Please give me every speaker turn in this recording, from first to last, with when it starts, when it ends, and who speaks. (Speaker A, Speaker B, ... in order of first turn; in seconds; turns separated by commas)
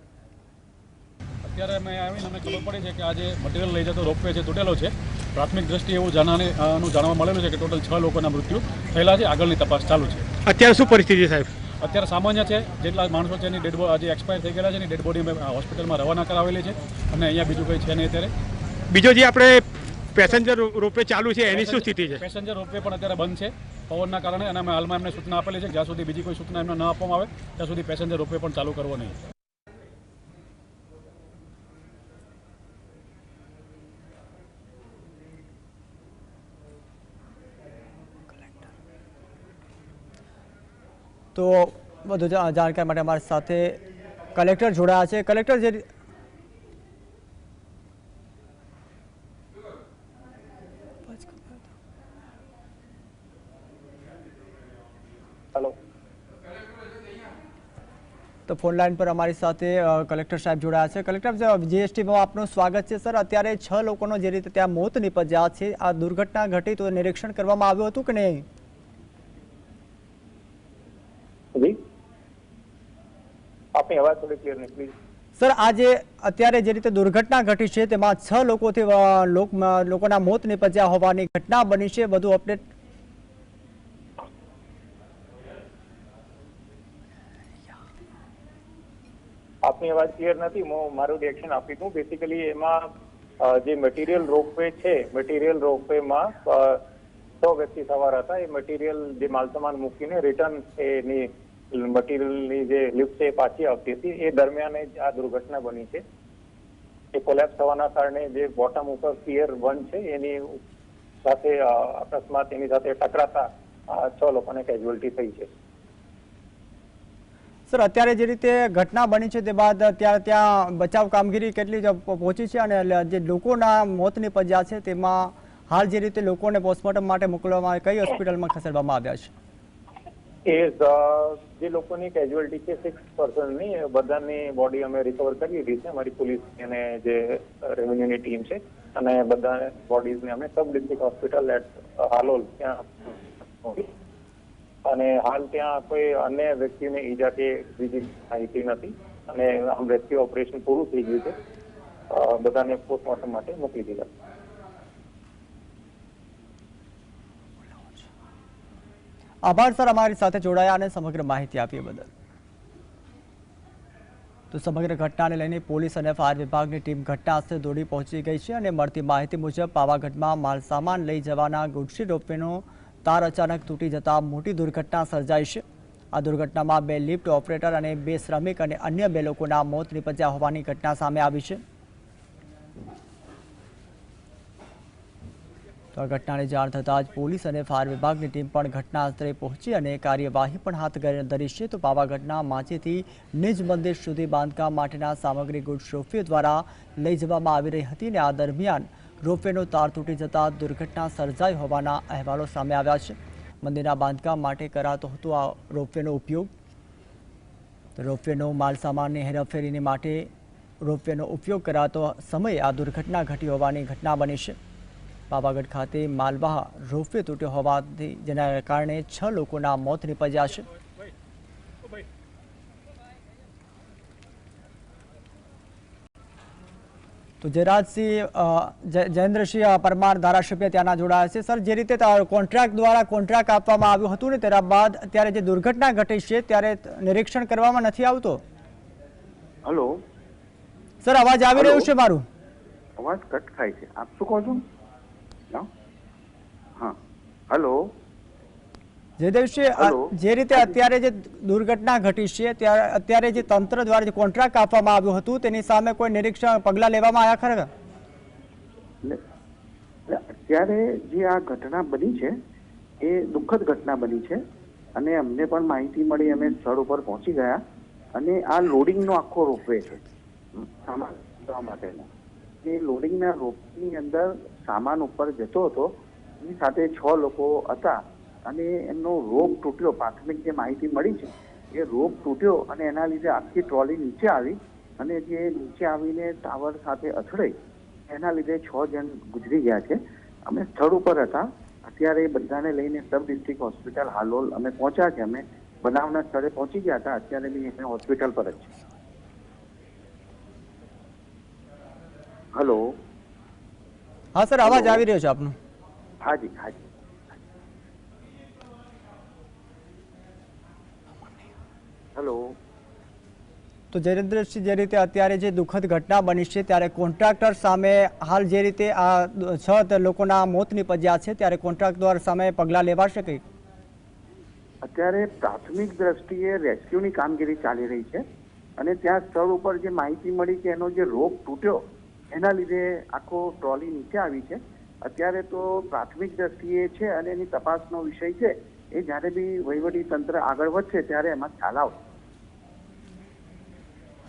Speaker A: 1.4-10.3, Speaker B: 10.4-11.5, Speaker A: 11.8-18.3, Speaker B: 18.9-22.2, Speaker A: 21.5-29.2, Speaker C: 41.4-43.8, Speaker C: 44.4-45.9, Speaker C: 51.1-51.6, Speaker C: 58.5-68.5, Speaker D: 73.8-74.9, Speaker C: 75.4-82.7, Speaker D: 89.7-96.8, Speaker D: 97.4-106.0, Speaker D: 107.1-110.6, Speaker D: 111.2-115.5, Speaker C: 117.7-129.3, Speaker D: 130.5-143.9, Speaker D: 144.8-151.3, Speaker D: 152.1-154.1, Speaker C: 159.4-162.1, Speaker C: 164.5-181.6, Speaker C: 186.0-206.5, Speaker C: 208.0-210.3, Speaker C: 210.8-214.6, Speaker C: 215.3-220.7, Speaker C: 227.4-238.4, Speaker E: 239.7-240.0, Speaker C: 241.0-242.2, Speaker E: 241.6-241.9, Speaker E: 243.0-244.6, Speaker E: 247.5-247.9, Speaker C: 249.2-257.7, Speaker E: 249.8-250.8, Speaker E: 260.1-262.3, Speaker E: 263.0-264.4, Speaker E: 264.9-267.6, Speaker E: 268.1-272.1, Speaker E: 272.6-287.5, Speaker E: 288.1-298.8, Speaker E: 302.6-302.9, Speaker C: 304.4-305.6, Speaker E: 304.6-305.1, Speaker E: 306.2-306.8, Speaker E: 312.1-312.5, Speaker C: 313.9-323.4, Speaker E: 324.9-328.2, Speaker E: 328.8-331.8, Speaker E: 332.3-341.9